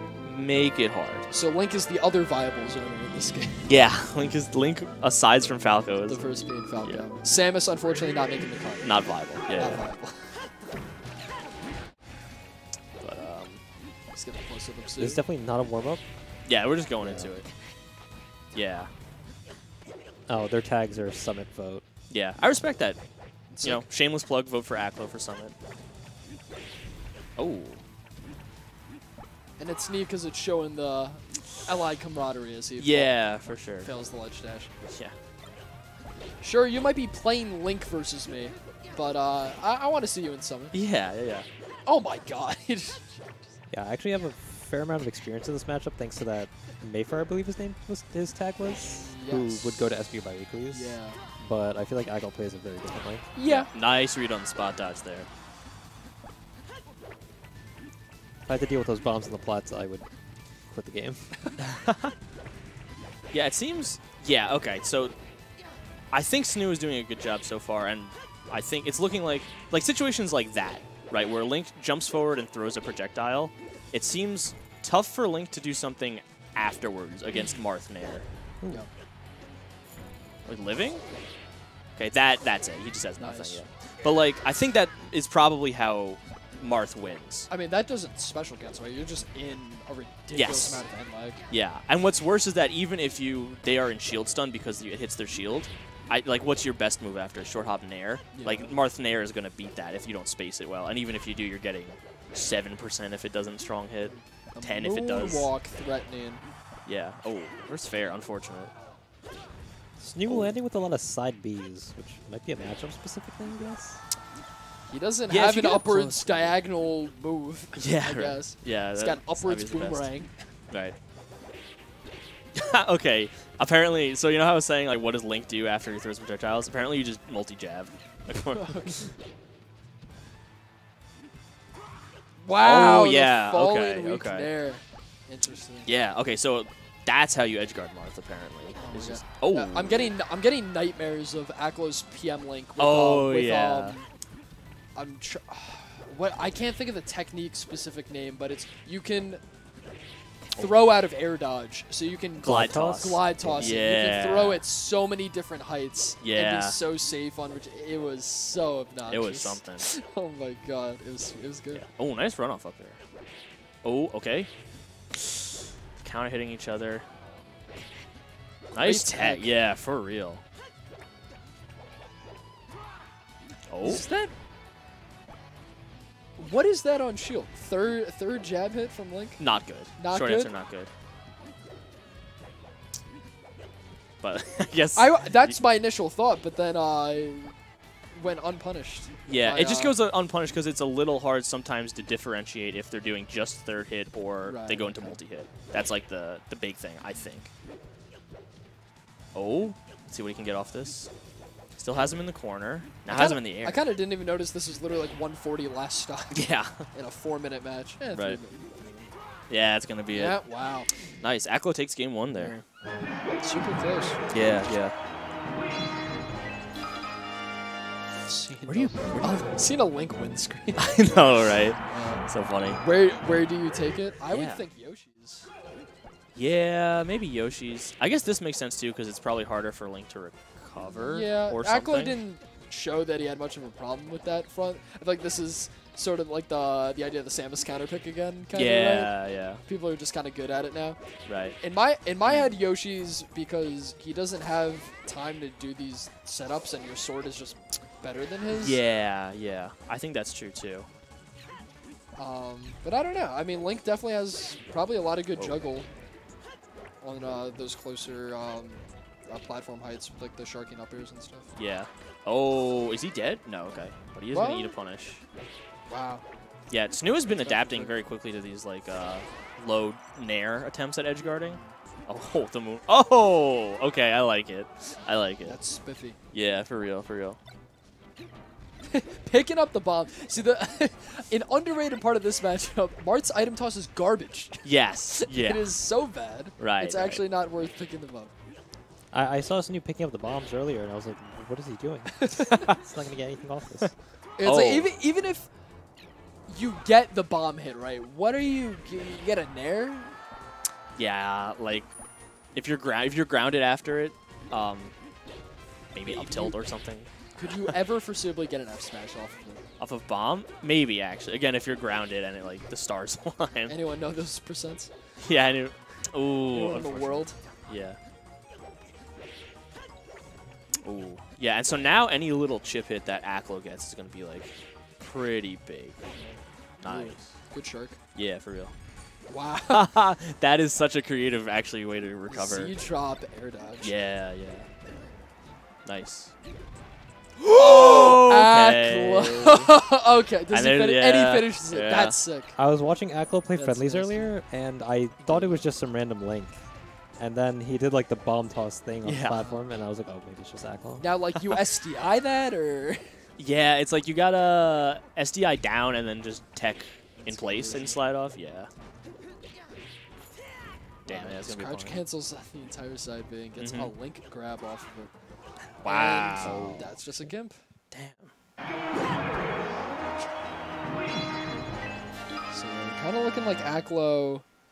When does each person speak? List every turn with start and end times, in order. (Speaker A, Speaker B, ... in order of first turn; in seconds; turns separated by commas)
Speaker A: 0.2-1.3, Speaker B: 1.3-3.6, Speaker A: 3.6-6.2, Speaker B: 6.1-10.7, Speaker A: 8.8-9.8, Speaker A: 13.0-13.6, Speaker B: 14.1-15.2, Speaker C: 15.0-16.0, Speaker A: 16.4-17.5, Speaker C: 17.0-17.3, Speaker A: 18.5-18.9, Speaker C: 20.3-21.8, Speaker A: 22.1-23.0, Speaker B: 23.5-23.9, Speaker A: 23.6-25.5, Speaker A: 27.4-27.8, Speaker B: 29.6-34.7, Speaker A: 32.8-33.9, Speaker A: 34.9-35.1, Speaker B: 36.4-40.7, Speaker A: 40.7-41.5, Speaker B: 41.9-43.5, Speaker C: 43.7-53.3, Speaker B: 49.0-49.9, Speaker B: 50.7-51.2, Speaker B: 53.3-53.7, Speaker A: 53.4-55.3, Speaker C: 58.5-60.1, Speaker C: 60.7-61.4, Speaker A: 61.6-62.1, Speaker A: 63.3-65.1, Speaker A: 66.1-78.2, Speaker B: 77.3-77.6, Speaker A: 80.5-81.0, Speaker A: 82.0-87.5, Speaker B: 83.2-83.6, Speaker B: 87.5-91.5, Speaker A: 90.3-90.8, Speaker A: 91.5-105.5, Speaker B: 98.3-98.7, Speaker B: 104.0-106.4, Speaker A: 106.8-108.7, Speaker C: 110.0-114.0, Speaker A: 110.2-110.5, Speaker B: 114.9-120.3, Speaker A: 115.3-116.5, Speaker A: 117.7-120.1, Speaker A: 120.7-121.0, Speaker A: 122.5-129.1, Speaker B: 128.5-129.1, Speaker B: 132.4-135.9, Speaker A: 132.6-134.5, Speaker A: 135.8-140.1, Speaker B: 138.8-144.1, Speaker A: 142.8-144.0, Speaker B: 144.9-149.4, Speaker B: 150.5-161.9, Speaker C: 152.4-153.7, Speaker A: 152.4-154.6, Speaker A: 156.2-156.8, Speaker A: 159.1-159.8, Speaker A: 161.7-163.0, Speaker A: 163.8-164.5, Speaker A: 166.0-167.1, Speaker A: 168.7-170.4, Speaker B: 168.8-169.5, Speaker A: 173.7-174.0, Speaker B: 173.8-174.3, Speaker B: 176.4-179.4, Speaker A: 179.4-180.9, Speaker B: 179.9-180.5, Speaker A: 184.2-185.6, Speaker B: 184.9-187.6, Speaker B: 188.1-190.0, Speaker A: 189.2-197.5, Speaker B: 194.4-195.2, Speaker A: 199.3-201.1, Speaker A: 201.8-203.8, Speaker B: 203.1-209.1, Speaker A: 206.3-206.8, Speaker A: 208.1-208.4, Speaker A: 209.5-210.4, Speaker B: 210.1-210.9, Speaker A: 211.2-212.6, Speaker B: 212.3-212.6, Speaker B: 213.4-214.3, Speaker A: 214.3-214.9, Speaker B: 218.2-222.2, Speaker A: 218.7-219.4, Speaker A: 220.8-222.8, Speaker B: 222.8-225.5, Speaker A: 224.3-224.6, Speaker A: 226.3-232.2, Speaker B: 230.9-241.0, Speaker A: 238.5-239.6, Speaker A: 241.3-241.6, Speaker B: 241.6-248.8, Speaker A: 242.2-242.5, Speaker A: 248.5-250.9, Speaker B: 252.2-255.9, Speaker B: 257.0-261.5, Speaker A: 261.6-265.2, Speaker B: 264.3-264.8, Speaker B: 265.9-266.2, Speaker A: 266.7-275.6, Speaker B: 267.4-267.9, Speaker B: 271.4-271.7, Speaker B: 275.4-276.2, Speaker A: 276.3-277.4, Speaker B: 278.9-288.3, Speaker A: 284.6-285.6, Speaker A: 286.6-287.2, Speaker C: 289.1-293.9, Speaker B: 292.2-292.7, Speaker A: 292.5-292.8, Speaker B: 294.4-295.5, Speaker A: 294.4-294.9, Speaker B: 296.5-300.1, Speaker A: 300.9-301.9, Speaker A: 302.5-304.9, Speaker A: 305.9-307.7, Speaker B: 306.0-306.6, Speaker B: 307.3-309.6, Speaker A: 309.8-313.7, Speaker B: 313.7-314.9, Speaker A: 315.2-318.0, Speaker B: 316.5-317.4, Speaker A: 320.8-326.0, Speaker B: 326.1-328.0, Speaker A: 326.8-327.3, Speaker A: 328.1-328.7, Speaker B: 329.3-329.9, Speaker A: 329.7-332.7, Speaker B: 332.3-333.9, Speaker A: 333.8-334.7, Speaker A: 335.8-336.3, Speaker B: 337.4-342.6, Speaker A: 337.5-339.7, Speaker A: 340.5-342.2, Speaker C: 342.6-346.6, Speaker B: 343.5-344.3, Speaker A: 345.2-345.6, Speaker C: 347.2-351.0, Speaker A: 349.0-349.5, Speaker B: 351.0-353.0, Speaker A: 353.4-358.7, Speaker B: 357.2-358.0, Speaker B: 361.0-365.1, Speaker A: 361.1-362.0, Speaker A: 363.6-363.9, Speaker A: 365.8-366.9, Speaker B: 365.8-367.6, Speaker C: 366.4-367.3, Speaker A: 367.9-368.3, Speaker B: 372.5-374.4